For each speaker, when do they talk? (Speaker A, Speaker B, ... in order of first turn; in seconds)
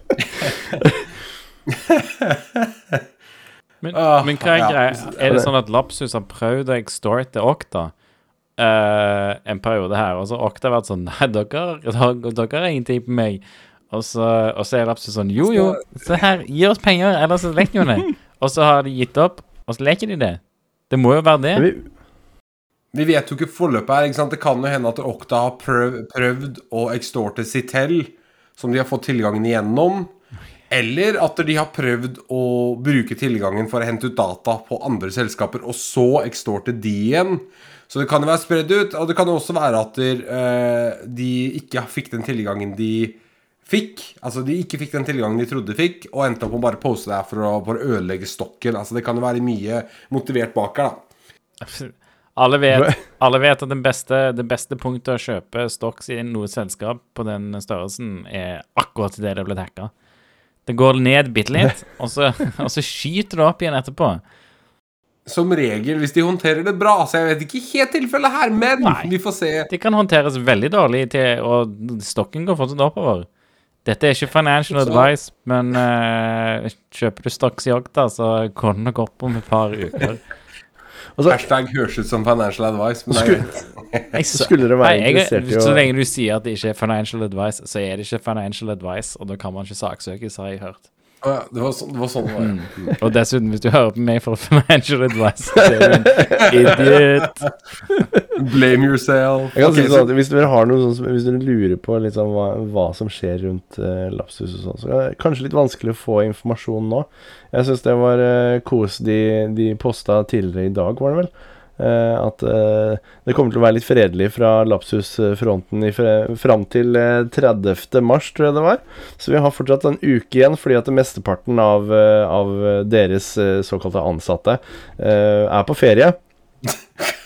Speaker A: 0.4-1.1, 21.5-21.9, 52.7-53.0, 83.1-83.4, 84.3-85.9, 95.7-97.0, 99.5-126.2
Speaker B: 1.7-3.0, 3.9-5.1, 15.5-16.2, 22.9-30.1, 30.7-51.0, 65.3-69.7, 74.8-75.1, 81.3-84.1, 91.2-93.0, 96.4-97.0, 98.3-100.1
Speaker C: 3.8-7.9, 8.6-21.7, 51.6-59.9, 60.6-64.2, 68.8-69.1, 69.7-73.3, 73.8-80.2, 84.1-90.9, 92.4-97.5